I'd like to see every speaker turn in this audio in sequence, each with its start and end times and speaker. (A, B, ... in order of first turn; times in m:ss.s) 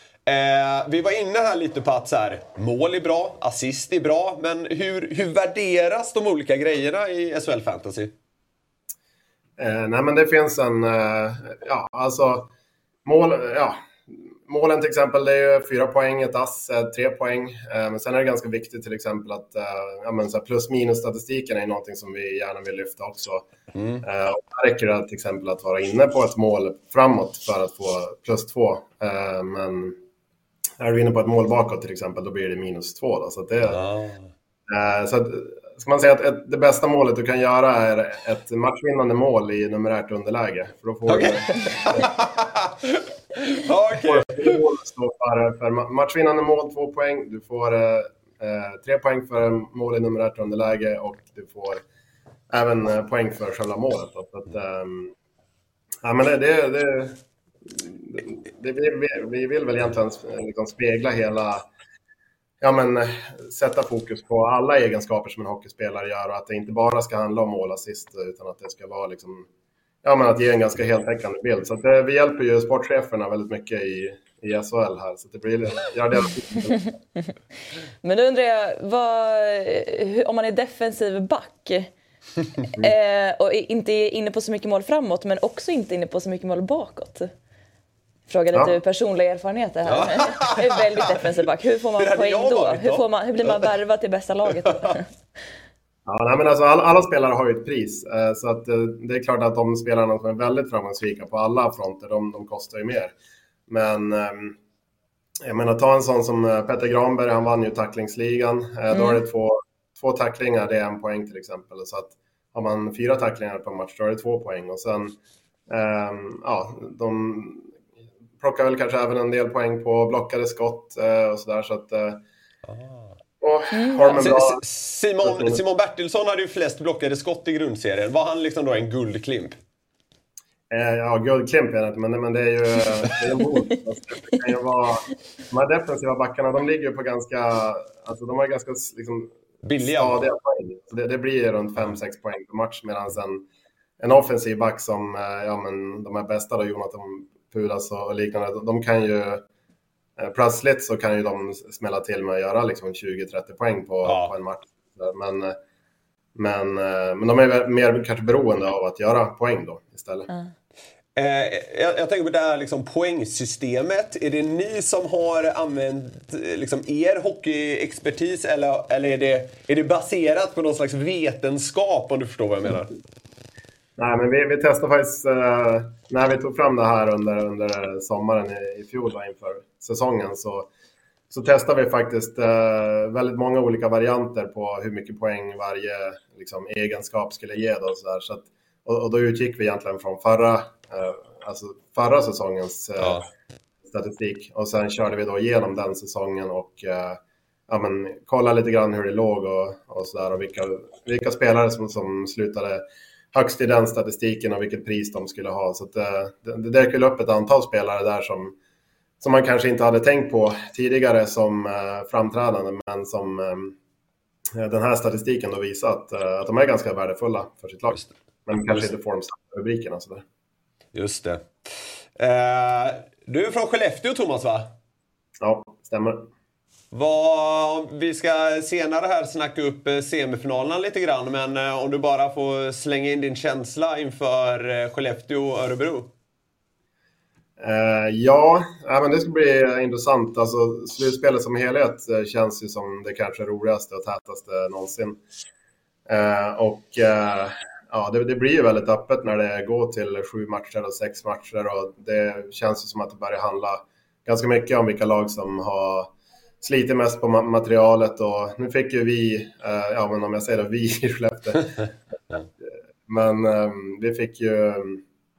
0:00.3-0:08.1 A
0:09.6-0:12.5 B
0:13.0-0:23.5 B
0:23.8-0:24.0 A
0:24.0-0:30.0 B
0:30.8-0:33.8 B
0:33.7-0:34.2 A
0:34.7-0:42.1 B
0:41.1-0:44.6 A
0:44.0-0:51.8 B
0:52.5-0:55.1 B
0:56.0-1:01.7 B
1:02.6-1:09.5 B
1:10.0-1:16.9 B
1:18.0-1:21.9 C
1:22.7-1:27.3 C
1:28.3-1:35.1 C
1:29.9-1:30.7 A
1:32.0-1:33.6 A
1:36.1-1:43.1 B
1:43.7-1:44.6 B
1:45.4-1:55.2 B
1:48.9-1:49.2 C
1:55.7-1:57.7 B
1:58.4-2:02.2 B
2:02.7-2:03.1 A
2:03.4-2:04.6 B
2:03.7-2:04.1 C
2:04.1-2:09.6 A
2:05.2-2:05.6 B
2:10.7-2:23.5 B
2:19.6-2:20.2 A
2:24.0-2:29.4 B
2:30.2-2:35.6 B
2:34.0-2:34.3 A
2:36.4-2:40.3 B
2:41.2-2:53.0 A
2:54.0-3:00.7 B
3:01.3-3:13.3 B
3:13.9-3:28.6 B
3:29.2-3:33.8 B
3:34.6-3:38.0 B
3:38.5-3:40.2 B
3:40.9-3:41.5 A
3:42.2-3:44.7 A
3:45.4-3:46.2 B
3:46.9-3:56.1 A
3:57.6-4:05.2 B
4:06.1-4:16.1 B
4:16.6-4:21.8 B
4:23.1-4:25.0 B